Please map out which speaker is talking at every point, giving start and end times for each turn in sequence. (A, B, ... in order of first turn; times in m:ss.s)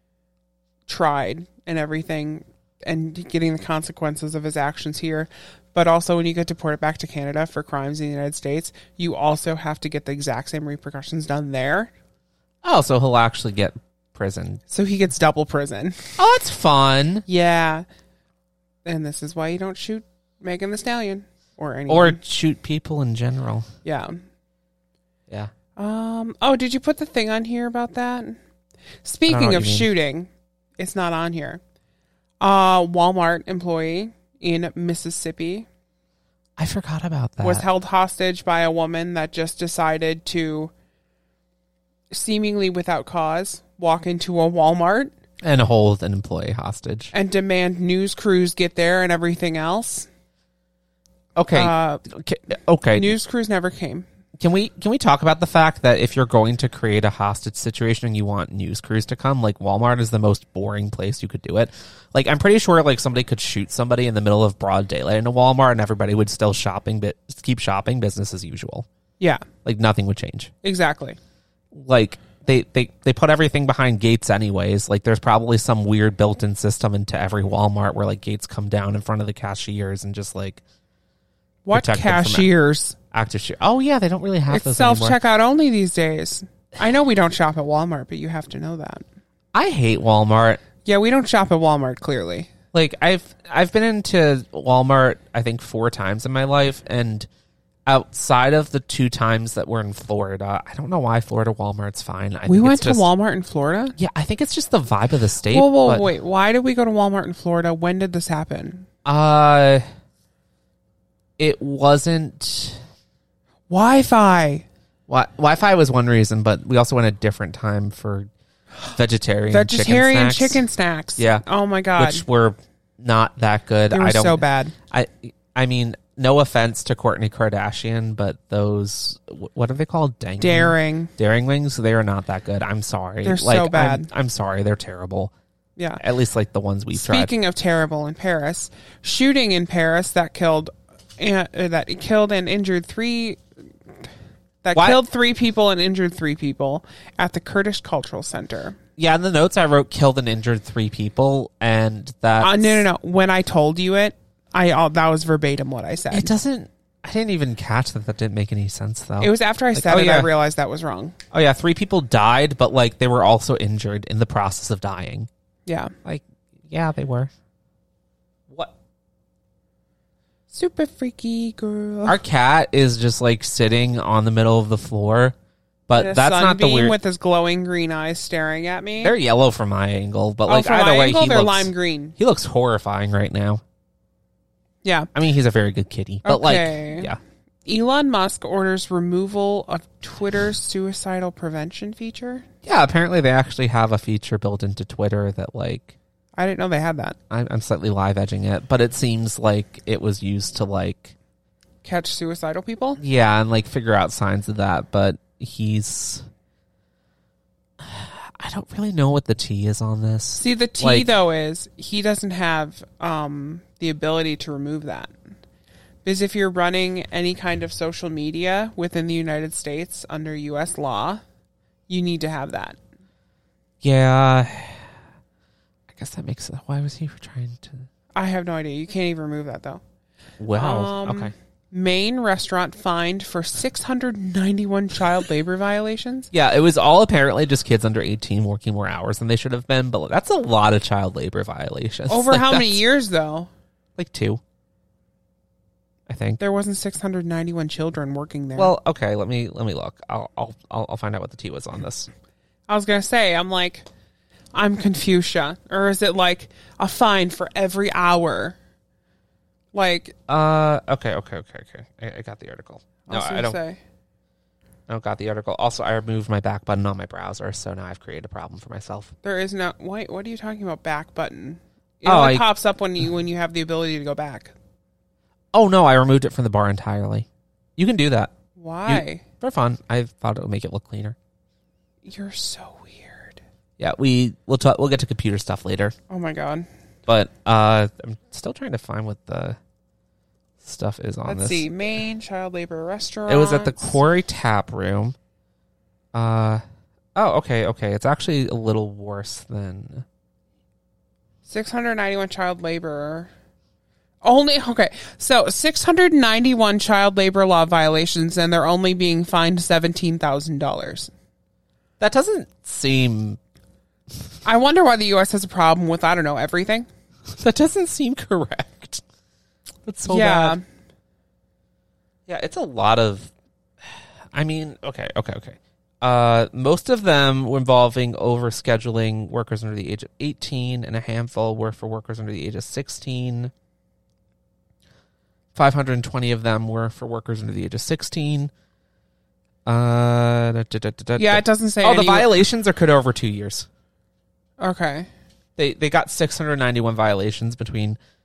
0:00.9-0:11.9 A
0:12.6-0:14.6 B
0:14.7-0:16.2 A
0:16.2-0:17.2 B
0:17.3-0:17.8 A
0:18.8-0:22.2 A
0:21.9-0:23.7 B
0:23.8-0:24.2 A
0:25.8-0:28.4 A
0:29.0-0:31.6 A
0:29.3-0:29.9 B
0:32.4-0:35.7 A
0:36.6-0:37.7 B
0:37.4-0:40.7 A
0:42.1-0:45.1 A
0:45.4-0:47.1 B
0:47.1-0:50.1 A
0:51.4-0:53.1 B
0:51.5-0:52.0 A
0:53.0-0:54.0 A
0:54.4-1:08.9 B
1:09.2-1:09.4 A
1:09.6-1:10.5 B
1:10.6-1:11.2 A
1:11.7-1:20.6 B
1:21.6-1:23.0 A
1:21.7-1:22.5 B
1:23.1-1:25.2 B
1:24.5-1:29.0 A
1:29.5-1:30.6 B
1:30.8-1:32.5 A
1:32.7-1:37.3 B
1:37.8-1:43.1 B
1:42.4-1:44.0 A
1:44.0-1:46.1 B
1:45.5-1:48.9 A
1:49.0-1:49.8 B
1:51.4-1:52.8 B
1:53.7-1:54.6 A
1:55.1-1:58.3 B
1:58.9-2:00.6 B
1:59.5-2:02.2 A
2:01.2-2:01.4 B
2:02.0-2:15.3 B
2:03.9-2:04.7 A
2:10.4-2:11.1 A
2:13.2-2:14.1 A
2:16.0-2:17.3 B
2:16.9-2:23.4 A
2:24.6-2:28.8 A
2:24.7-2:25.0 B
2:29.0-2:32.8 B
2:32.4-2:36.3 A
2:36.1-2:40.3 B
2:39.2-2:41.2 A
2:41.3-2:45.3 B
2:45.6-2:45.9 A
2:46.0-2:47.3 B
2:50.5-2:52.2 A
2:52.0-2:55.3 B
2:55.9-2:56.9 B
2:55.9-2:59.1 A
2:59.0-3:03.6 B
3:00.4-3:02.1 A
3:04.8-3:05.1 A
3:05.1-3:07.2 B
3:06.2-3:07.1 A
3:07.6-3:12.4 A
3:12.6-3:16.0 B
3:16.4-3:17.2 A
3:17.3-3:21.1 B
3:21.8-3:23.0 A
3:23.0-3:26.2 B
3:27.8-3:31.1 B
3:30.4-3:35.1 A
3:36.0-3:41.2 A
3:41.9-3:42.8 A
3:43.8-3:44.9 B
3:45.9-3:47.9 B
3:48.1-3:49.8 A
3:50.4-3:51.3 B
3:50.5-3:56.3 A
3:56.3-4:02.8 B
4:02.1-4:03.5 A
4:04.0-4:04.4 B
4:06.1-4:06.4 B
4:06.4-4:08.7 A
4:08.6-4:12.1 B
4:12.7-4:13.8 A
4:14.5-4:18.6 A
4:19.7-4:20.1 A
4:20.3-4:23.6 B
4:23.1-4:23.8 A
4:24.9-4:29.1 B
4:29.2-4:34.5 A
4:32.0-4:32.4 B
4:35.5-4:38.3 B
4:38.6-4:39.2 A
4:38.8-4:41.2 B
4:42.0-4:43.4 A
4:43.8-4:45.9 B
4:46.1-4:46.7 A
4:47.1-4:49.6 B
4:50.6-4:51.6 B
4:51.2-4:54.0 A
4:53.3-4:55.2 B
4:56.1-4:56.6 B
4:57.1-5:00.0 B
5:01.4-5:03.3 A
5:04.2-5:11.1 A
5:12.0-5:13.4 B
5:14.4-5:16.9 A
5:17.3-5:19.0 B
5:19.8-5:20.6 B
5:20.0-5:20.6 A
5:22.3-5:23.3 B
5:24.3-5:33.5 B
5:35.5-5:38.5 B
5:39.6-5:43.7 B
5:41.2-5:42.4 A
5:44.6-5:45.1 A
5:45.6-5:48.0 B